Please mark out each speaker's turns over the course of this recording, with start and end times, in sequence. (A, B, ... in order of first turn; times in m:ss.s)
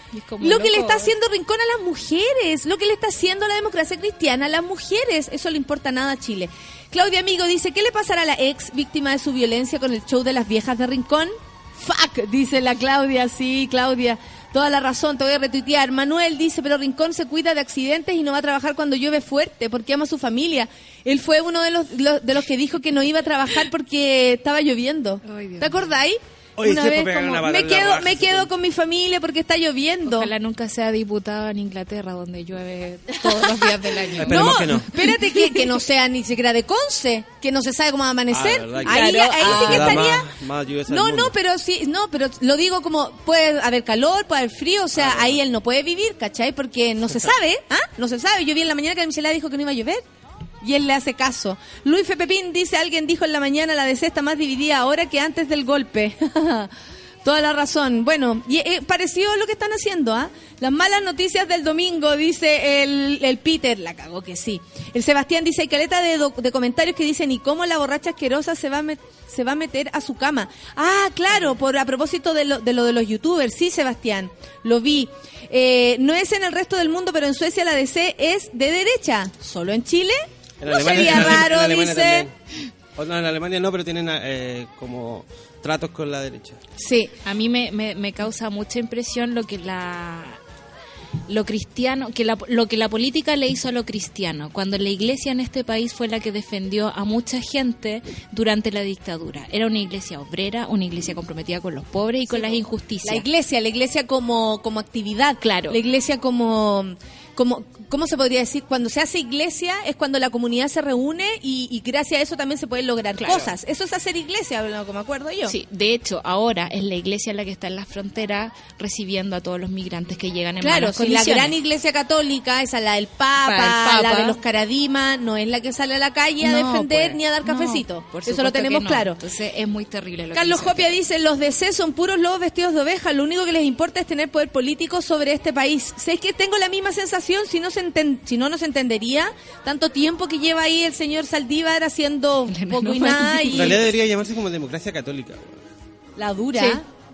0:00.1-0:01.1 A
0:00.4-0:30.3 B
0:25.2-0:25.8 A
0:26.6-0:28.5 C
0:30.1-0:35.8 A
0:33.2-0:33.5 B
0:34.2-0:40.3 B
0:34.2-0:34.9 C
0:38.3-0:41.3 C
0:38.8-0:40.2 A
0:40.9-0:50.0 B
0:45.0-0:45.4 C
0:50.6-0:56.7 B
0:57.2-1:22.3 B
1:20.6-1:22.3 C
1:20.9-1:21.2 A
1:22.9-1:26.6 C
1:26.8-1:30.4 A
1:31.3-1:43.2 A
1:42.3-1:55.6 B
1:45.4-1:45.8 A
1:53.2-1:53.5 A
1:55.4-2:01.6 A
2:00.6-2:09.2 B
2:03.4-2:04.4 A
2:06.4-2:10.9 A
2:10.3-2:23.9 B
2:22.5-2:23.8 A
2:23.5-2:25.6 C
2:26.2-2:26.8 B
2:26.5-2:26.8 A